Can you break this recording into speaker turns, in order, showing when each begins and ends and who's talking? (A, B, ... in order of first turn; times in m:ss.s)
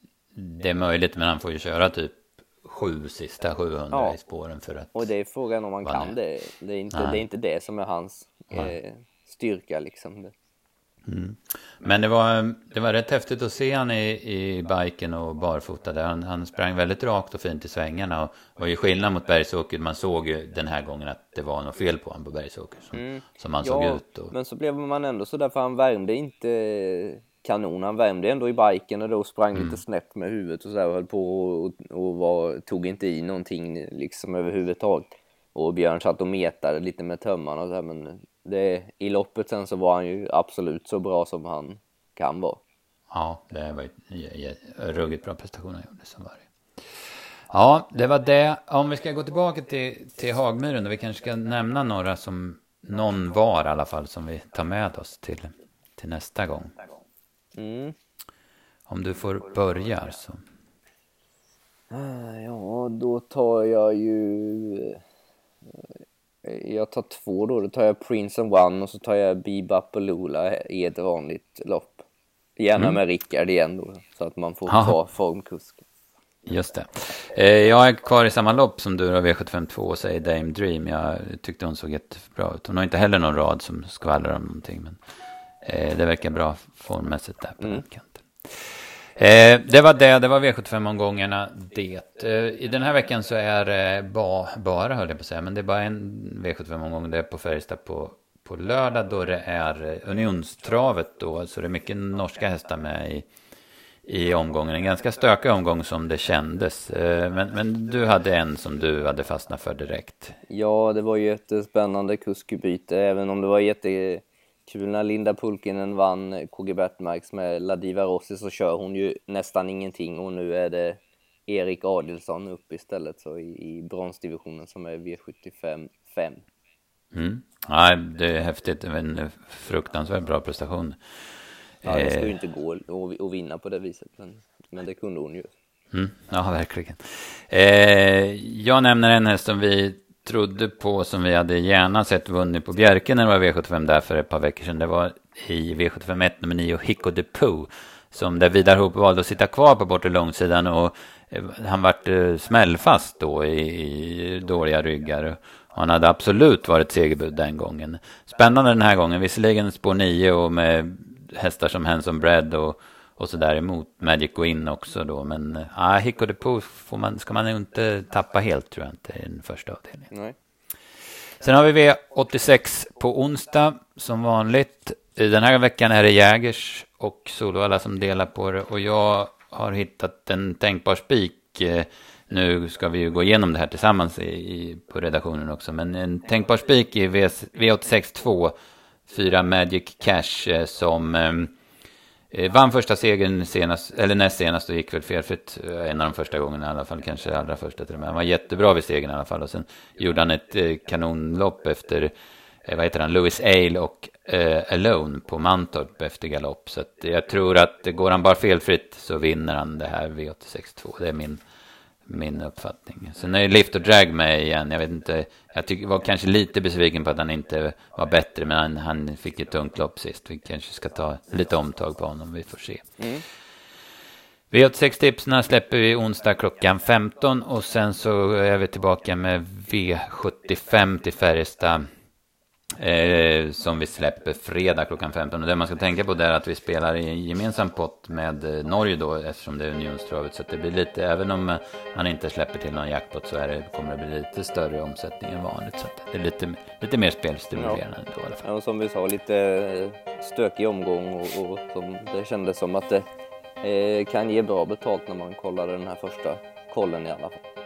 0:00.3-0:05.1 A
0:03.9-0:04.2 B
0:04.9-0:10.3 B
0:05.8-0:06.1 A
0:06.9-0:07.2 A
0:11.1-0:24.3 A
0:22.9-0:42.6 B
0:29.5-0:29.8 A
0:43.1-0:56.8 A
0:57.6-0:58.0 B
0:58.9-1:00.4 A
1:01.9-1:05.0 B
1:06.4-1:12.1 B
1:12.6-1:15.8 B
1:12.7-1:13.0 A
1:14.7-1:15.0 A
1:16.4-1:25.0 A
1:25.6-1:43.2 A
1:44.1-1:50.4 A
1:50.5-2:06.4 B
2:07.1-2:11.0 A
2:11.8-2:12.3 A
2:11.8-2:15.5 B
2:15.9-2:50.1 A
2:51.4-3:08.5 A
3:09.1-3:11.5 A
3:12.3-3:22.1 A
3:22.6-3:31.4 A
3:32.1-3:43.0 A
3:43.0-3:43.2 B
3:44.5-3:51.8 A
3:52.8-4:08.4 A
4:07.5-4:07.8 B
4:08.4-4:13.1 B
4:13.6-4:17.4 B